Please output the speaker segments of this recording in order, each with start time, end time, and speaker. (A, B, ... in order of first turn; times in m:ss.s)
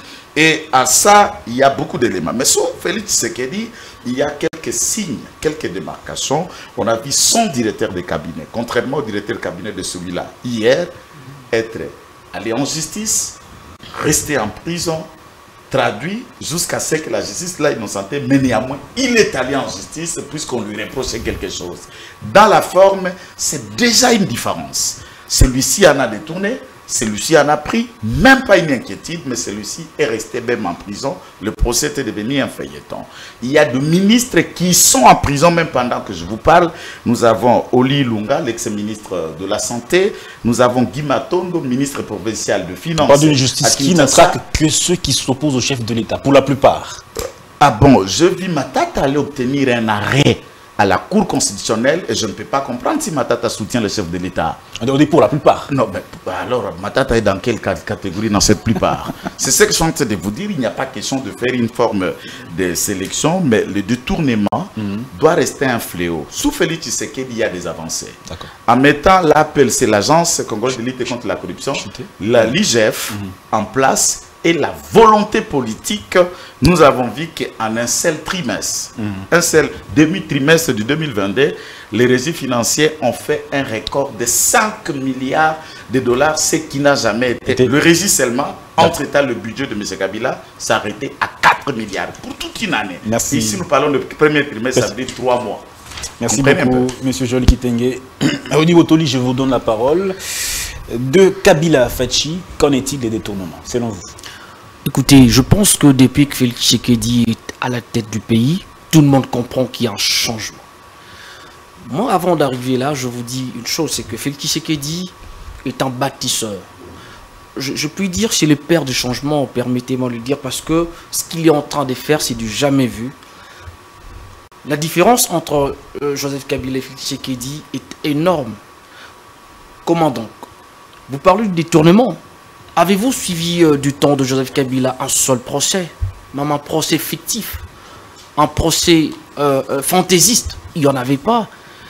0:00.4-0:10.9 A
0:11.5-0:13.4 A
0:13.9-0:15.1 A
0:15.7-0:44.4 A
0:43.0-0:47.0 B
0:47.6-0:54.6 A
0:54.8-0:55.7 B
0:55.7-1:35.6 A
1:04.8-1:05.1 B
1:11.8-1:12.5 B
1:19.0-1:19.2 B
1:33.0-1:33.6 B
1:36.2-1:44.1 B
1:36.2-1:36.9 A
1:44.8-1:50.6 C
1:51.8-1:55.1 C
1:55.6-1:56.6 C
1:57.6-2:03.2 C
2:04.6-2:08.6 C
2:09.8-2:10.4 C
2:11.1-2:12.2 C
2:12.8-2:17.6 C
2:18.4-2:21.5 C